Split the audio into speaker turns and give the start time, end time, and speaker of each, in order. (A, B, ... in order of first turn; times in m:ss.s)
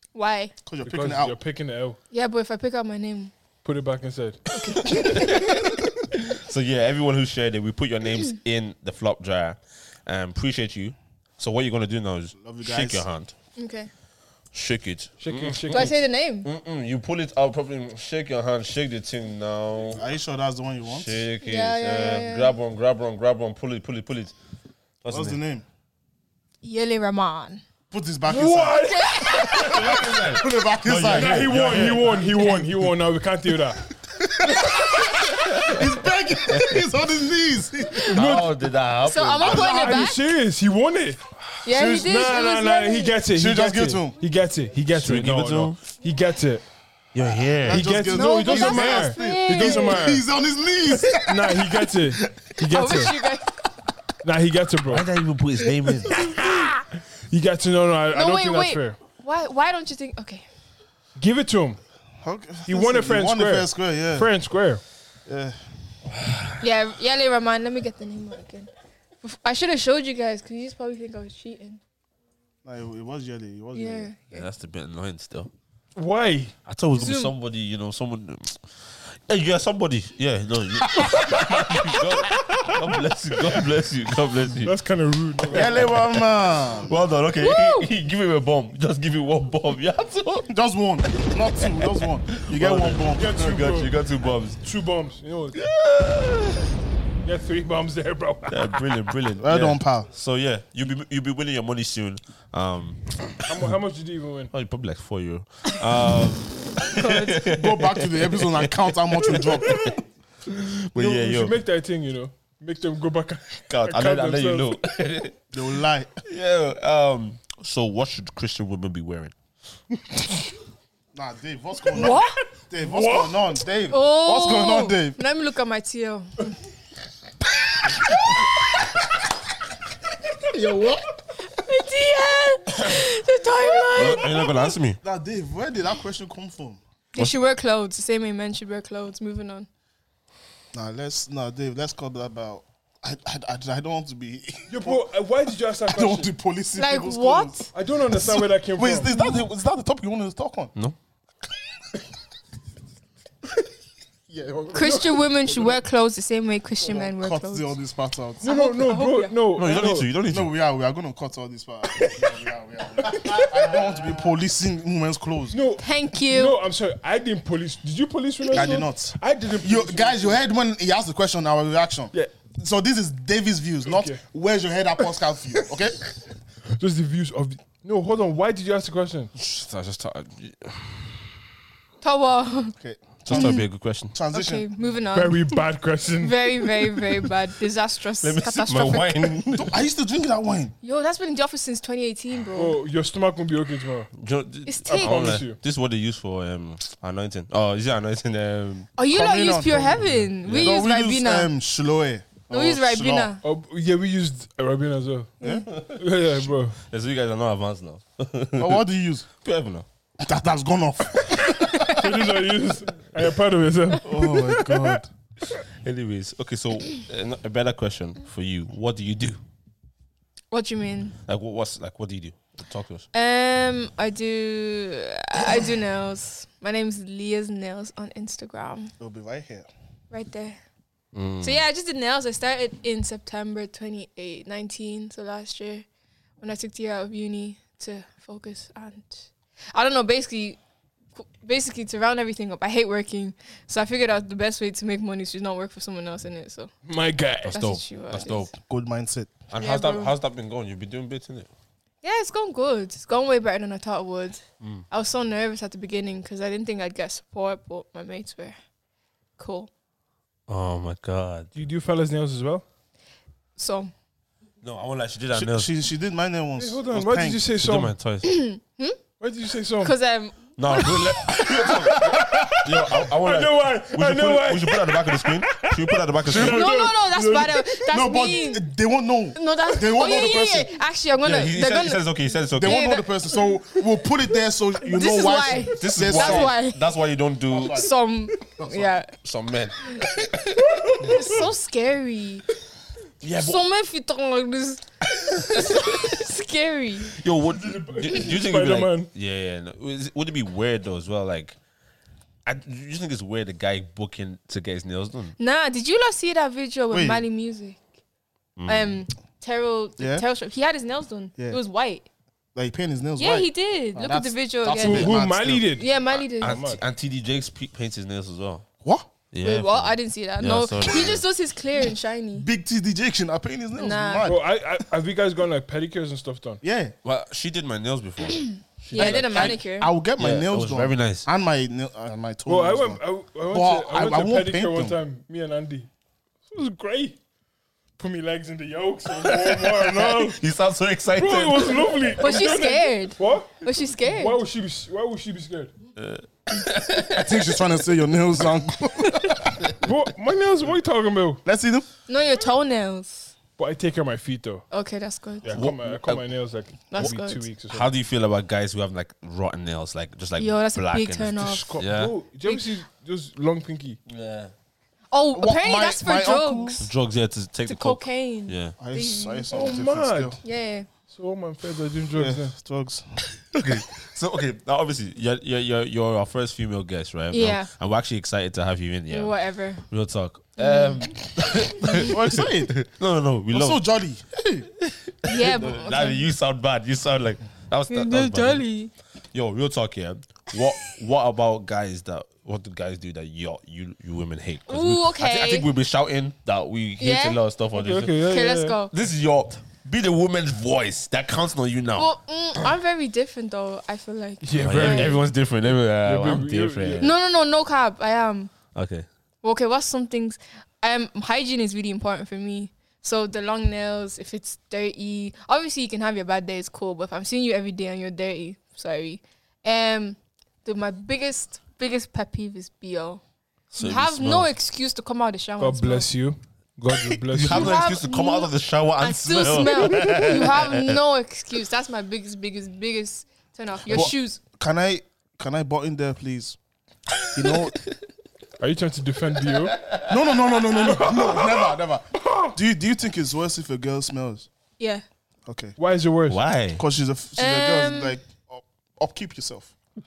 0:00.1-0:00.5 A
0:00.6-0:01.4 B
0:00.8-0:02.0 C
0:02.1-0:03.3 A
0:03.6-0:04.9 C
0:04.8-0:13.3 D
0:12.4-0:13.0 B
0:13.6-0:13.9 A
0:14.5-0:20.0 D
0:15.2-0:15.9 C
0:15.7-0:16.5 A
0:19.9-0:21.2 B
0:20.9-0:24.3 D
0:21.4-0:22.5 A
0:25.0-0:25.4 D
0:25.1-0:25.6 B
0:26.6-0:27.6 A
0:27.9-0:31.8 B
0:28.3-0:29.8 C
0:28.7-0:29.8 A
0:29.6-0:32.2 D
0:31.1-0:33.8 C
0:34.1-0:38.2 B
0:35.2-0:35.9 D
0:36.5-0:36.8 D
0:38.1-0:39.8 D
0:38.1-0:38.6 C
0:39.0-0:40.2 A
0:39.4-0:40.1 B
0:39.5-0:41.2 C
0:41.6-0:43.2 A
0:41.7-0:42.2 B
0:41.8-0:46.6 C
0:43.3-0:44.2 B
0:44.9-0:45.8 D
0:47.1-0:47.9 D
0:47.6-0:52.1 B
0:47.7-0:50.2 C
0:48.1-0:50.0 A
0:51.1-0:53.1 C
0:52.7-0:53.5 A
0:54.2-0:55.1 C
0:54.9-0:56.6 D
0:56.1-0:56.7 C
0:57.3-0:59.0 C
0:58.1-1:00.5 A
1:01.2-1:01.8 C
1:02.2-1:04.3 B
1:02.7-1:04.8 C
1:05.2-1:05.6 B
1:06.2-1:06.5 D
1:06.6-1:08.7 A
1:09.2-1:11.8 A
1:12.6-1:14.1 B
1:13.7-1:14.5 A
1:14.3-1:15.5 D
1:16.0-1:16.5 C
1:16.6-1:24.7 D
1:16.9-1:17.3 A
1:21.0-1:21.3 B
1:24.6-1:25.8 C
1:25.4-1:26.2 D
1:25.5-1:26.9 B
1:26.8-1:30.5 D
1:27.4-1:27.9 A
1:30.5-1:33.7 B
1:31.1-1:34.6 D
1:33.1-1:33.9 C
1:34.6-1:35.6 C
1:35.5-1:36.6 D
1:37.2-1:38.9 C
1:38.5-1:43.3 D
1:39.4-1:40.1 B
1:43.4-1:44.5 C
1:44.5-1:50.0 D
1:46.8-1:47.4 A
1:47.4-1:49.9 B
1:50.5-1:51.6 D
1:50.9-1:54.8 C
1:53.7-1:55.4 D
1:55.5-1:56.2 B
1:56.2-1:59.3 D
2:01.1-2:05.2 B
2:01.9-2:02.4 A
2:02.8-2:03.5 C
2:03.9-2:06.5 A
2:10.6-2:10.8 B
2:11.4-2:14.7 A
2:13.9-2:15.0 D
2:15.0-2:16.8 B
2:17.1-2:19.7 A
2:20.7-2:25.1 B
2:24.7-2:26.3 C
2:25.8-2:30.7 B
2:26.8-2:27.7 A
2:27.7-2:29.1 C
2:29.1-2:29.4 A
2:34.3-2:35.1 B
2:34.7-2:37.7 A
2:34.7-2:35.7 C
2:36.8-2:38.4 B
2:38.4-2:39.3 A
2:38.4-2:40.1 C
2:39.5-2:40.5 D
2:40.3-2:45.6 B
2:43.1-2:43.6 C
2:45.5-2:50.4 C
2:45.8-2:46.6 A
2:48.5-2:56.0 B
2:53.8-2:54.2 C
2:56.7-2:59.3 C
2:59.3-3:01.2 D
3:02.0-3:02.7 A
3:02.8-3:04.6 B
3:03.2-3:04.2 D
3:03.3-3:03.6 A
3:04.3-3:05.6 A
3:05.1-3:07.0 C
3:06.2-3:09.4 A
3:08.2-3:09.8 D
3:09.5-3:10.7 B
3:10.8-3:12.8 A
3:12.5-3:14.1 C
3:14.2-3:18.9 D
3:14.6-3:15.4 A
3:14.8-3:15.6 C
3:19.0-3:21.5 A
3:19.1-3:23.3 B
3:20.4-3:20.8 D
3:22.5-3:23.4 A
3:23.4-3:26.8 C
3:25.4-3:25.6 B
3:25.7-3:26.0 D
3:26.8-3:28.8 D
3:28.6-3:29.2 B
3:29.4-3:29.8 D
3:30.2-3:31.6 B
3:31.6-3:32.0 A
3:31.8-3:34.2 C
3:34.0-3:35.1 B
3:34.1-3:34.9 A
3:35.8-3:39.4 D
3:40.5-3:41.1 A
3:41.2-3:43.1 D
3:43.1-3:48.9 A
3:49.0-3:49.7 B
3:50.1-3:50.6 A
3:51.1-3:51.6 D
3:51.4-3:55.9 A
3:56.4-4:00.6 A
4:01.2-4:06.7 A
4:06.8-4:07.6 C
4:07.4-4:08.5 D
4:07.5-4:08.5 A
4:08.5-4:09.3 B
4:09.5-4:11.5 D
4:09.6-4:10.1 A
4:12.0-4:18.6 A
4:19.4-4:19.7 A
4:20.5-4:21.5 D
4:21.5-4:22.6 C
4:23.6-4:23.9 A
4:24.6-4:25.7 D
4:25.3-4:27.5 B
4:26.6-4:27.9 C
4:27.6-4:28.3 D
4:28.2-4:29.0 A
4:29.2-4:29.9 C
4:29.8-4:31.0 A
4:30.6-4:36.7 D
4:31.5-4:37.6 C
4:36.3-4:36.7 B
4:36.3-4:38.7 A
4:37.8-4:40.8 B
4:39.3-4:42.0 A
4:41.2-4:42.9 D
4:42.5-4:46.5 B
4:42.6-4:43.5 A
4:44.8-4:46.8 A
4:45.8-4:47.9 D
4:47.5-4:47.9 B
4:47.5-4:49.1 A
4:48.6-4:48.9 B
4:49.1-4:51.4 D
4:51.0-4:52.4 A
4:53.2-4:53.6 D
4:53.3-4:54.8 A
4:55.3-4:56.1 D
4:55.4-4:57.2 A
4:57.1-5:01.6 D
4:57.5-4:59.1 C
5:02.4-5:05.3 D
5:05.4-5:07.8 A
5:06.9-5:07.2 B
5:08.6-5:09.0 D
5:08.7-5:12.0 A
5:10.0-5:10.2 B
5:12.5-5:15.7 B
5:13.2-5:15.2 A
5:14.8-5:15.9 C
5:15.7-5:16.6 A
5:16.1-5:18.6 D
5:16.4-5:16.8 C
5:18.8-5:19.1 B
5:19.3-5:21.2 D
5:19.4-5:22.5 A
5:22.4-5:24.4 B
5:23.8-5:24.3 A
5:24.2-5:26.6 C
5:26.6-5:26.9 B
5:27.0-5:29.6 D
5:28.9-5:29.9 A
5:28.9-5:33.0 B
5:30.2-5:31.3 D
5:32.5-5:35.9 C
5:33.5-5:35.0 B
5:36.5-5:37.2 C
5:38.0-5:40.4 C
5:39.2-5:42.1 D
5:41.2-5:45.7 C
5:42.2-5:44.4 A
5:46.0-5:47.5 D
5:47.0-5:49.6 B
5:49.8-5:51.4 C
5:51.4-5:51.8 B
5:52.1-5:53.3 A
5:53.6-5:54.6 C
5:54.7-5:55.6 A
5:55.4-5:57.9 C
5:55.5-5:56.2 D
5:56.9-5:57.4 A
5:57.7-6:02.1 D
6:00.4-6:01.7 A
6:01.4-6:04.0 C
6:04.1-6:04.5 D
6:05.1-6:06.9 A
6:05.3-6:06.8 B
6:06.8-6:08.7 D
6:07.6-6:09.8 A
6:08.8-6:10.4 B
6:09.5-6:10.4 C
6:10.4-6:10.9 A
6:11.1-6:12.5 C
6:12.1-6:13.2 B
6:13.5-6:23.8 D
6:17.3-6:17.7 A
6:19.1-6:19.8 A
6:20.6-6:21.0 A
6:22.0-6:22.8 B
6:23.5-6:24.7 B
6:24.8-6:28.6 D
6:25.2-6:26.2 A
6:27.9-6:28.9 A
6:29.3-6:38.2 D
6:34.7-6:35.7 A
6:37.0-6:37.4 A
6:37.7-6:38.8 C
6:38.2-6:38.9 A
6:38.9-6:42.7 D
6:42.0-6:45.2 A
6:44.4-6:45.3 C
6:44.5-6:47.1 D
6:46.0-6:47.1 C
6:47.0-6:48.5 A
6:48.7-6:49.1 D
6:49.4-7:03.2 A
7:03.7-7:04.5 D
7:03.8-7:06.1 A
7:05.6-7:07.8 C
7:07.3-7:11.0 D
7:07.4-7:14.4 A
7:13.9-7:16.6 B
7:17.3-7:17.8 B
7:18.6-7:19.8 C
7:19.8-7:20.1 D
7:20.0-7:24.5 B
7:24.8-7:25.0 A
7:25.4-7:25.8 B
7:25.8-7:26.4 C
7:26.3-7:26.8 D
7:26.8-7:29.7 B
7:27.4-7:28.2 A